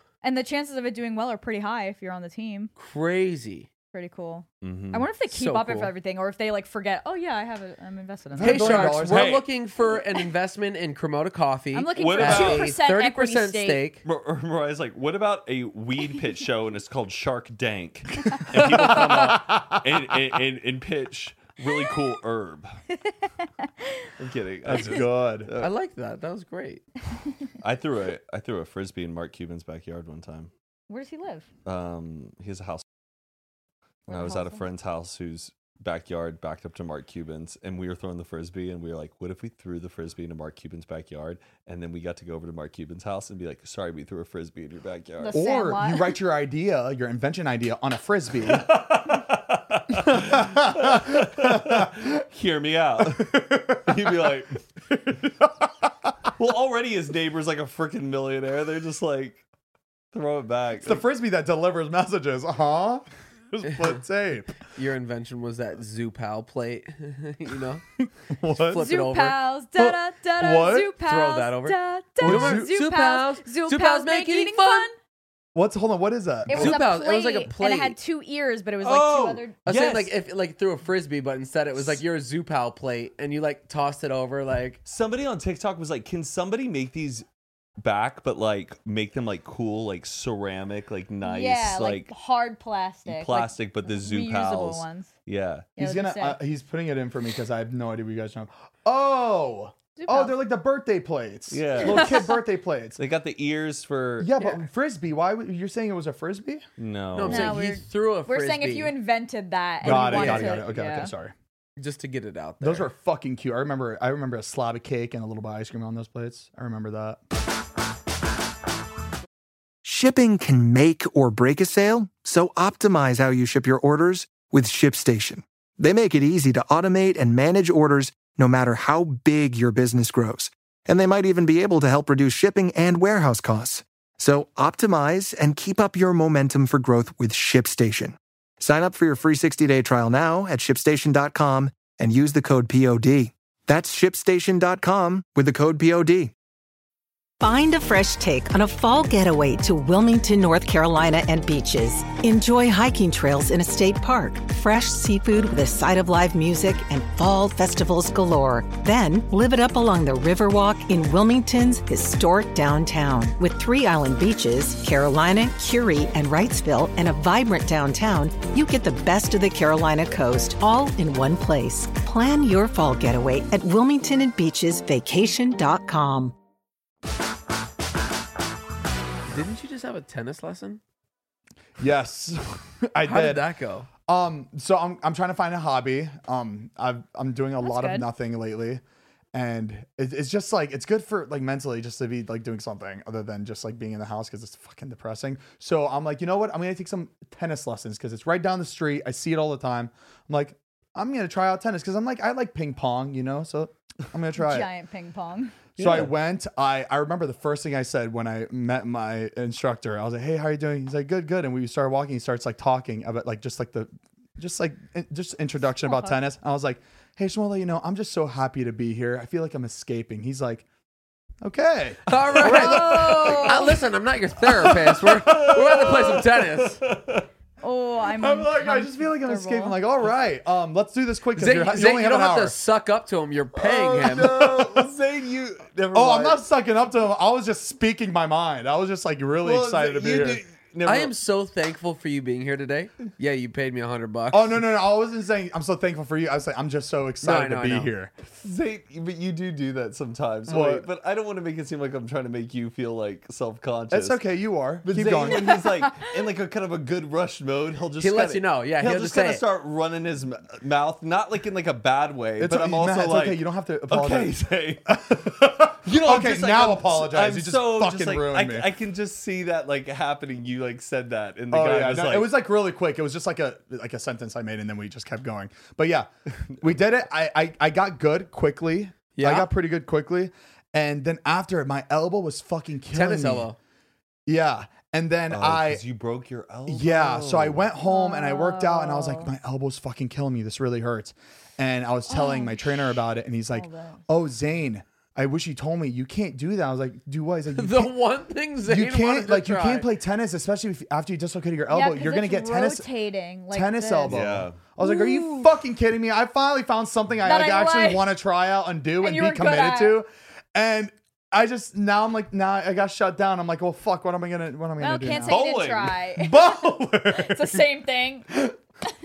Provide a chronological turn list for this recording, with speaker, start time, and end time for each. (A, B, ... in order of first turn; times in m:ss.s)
0:00.2-0:02.7 A
0:02.8-0:03.7 B
0:03.9-0:08.9 A
0:04.6-0:05.1 C
0:05.3-0:05.9 B
0:08.3-0:09.4 D
0:08.4-0:14.0 B
0:08.9-0:09.5 C
0:11.7-0:13.8 A
0:12.0-0:12.7 C
0:14.0-0:22.8 C
0:18.4-0:19.8 D
0:18.6-0:19.3 B
0:23.4-0:24.1 A
0:24.2-0:25.7 C
0:24.6-0:25.5 D
0:25.6-0:26.8 B
0:27.6-0:30.5 C
0:30.9-0:31.4 A
0:31.6-0:32.8 C
0:34.1-0:34.6 A
0:34.1-0:45.3 C
0:45.2-0:46.2 A
0:45.3-0:48.8 D
0:48.4-0:54.6 C
0:49.9-0:52.1 D
0:53.0-0:55.7 D
0:56.4-0:59.4 C
1:00.1-1:01.0 C
1:00.8-1:04.6 D
1:03.6-1:03.9 B
1:04.6-1:07.8 B
1:08.3-1:09.0 D
1:08.5-1:09.4 B
1:08.8-1:15.0 A
1:09.8-1:10.9 D
1:11.0-1:14.9 B
1:12.2-1:12.7 D
1:15.5-1:16.8 D
1:16.5-1:19.6 A
1:16.5-1:18.0 B
1:18.8-1:20.1 C
1:19.6-1:24.8 B
1:24.8-1:27.2 C
1:27.8-1:32.1 C
1:31.2-1:35.1 A
1:33.0-1:35.7 C
1:35.8-1:36.4 A
1:35.8-1:43.0 D
1:40.0-1:40.4 A
1:41.5-1:42.2 C
1:41.8-1:42.2 A
1:43.0-1:44.3 C
1:44.2-1:46.6 D
1:46.8-1:47.6 C
1:47.1-1:48.9 B
1:47.2-1:51.1 A
1:49.8-1:51.3 D
1:49.8-1:50.6 B
1:51.8-1:52.9 B
1:52.6-1:57.2 D
1:59.8-2:26.3 E
2:27.4-2:56.3 F
2:59.3-3:00.8 B
3:01.8-3:03.5 D
3:03.0-3:03.9 B
3:04.1-3:08.8 D
3:07.6-3:08.1 A
3:09.3-3:24.7 D
3:24.4-3:25.6 A
3:25.8-3:26.1 C
3:25.8-3:40.6 D
3:35.8-3:36.2 A
3:41.4-3:43.7 D
3:42.1-3:46.8 B
3:42.4-3:43.7 A
3:44.5-3:47.2 C
3:47.6-3:49.8 A
3:48.1-3:52.6 D
3:51.4-3:54.4 B
3:53.6-3:56.4 C
3:54.0-3:54.9 D
3:55.9-4:00.4 D
3:59.4-4:01.1 C
4:00.8-4:04.6 B
4:04.3-4:08.1 D
4:07.2-4:07.9 B
4:08.4-4:14.2 C
4:10.5-4:10.8 D
4:13.9-4:15.6 D
4:14.8-4:24.9 C
4:18.0-4:19.4 B
4:22.4-4:24.3 D
4:24.9-4:28.7 D
4:25.8-4:32.3 C
4:31.5-4:36.1 D
4:36.5-4:36.8 C
4:36.6-4:43.5 D
4:39.2-4:39.5 B
4:42.9-4:43.6 B
4:44.2-4:45.8 D
4:45.3-4:47.6 C
4:46.7-4:57.9 D
4:47.8-4:49.3 A
4:52.1-4:54.0 A
4:57.5-4:59.9 B
4:58.6-5:02.9 D
5:01.7-5:04.2 A
5:03.5-5:15.4 D
5:04.1-5:04.6 C
5:04.8-5:05.5 A
5:07.2-5:08.2 A
5:09.0-5:10.0 A
5:14.8-5:18.3 A
5:15.2-5:16.0 C
5:16.2-5:17.6 D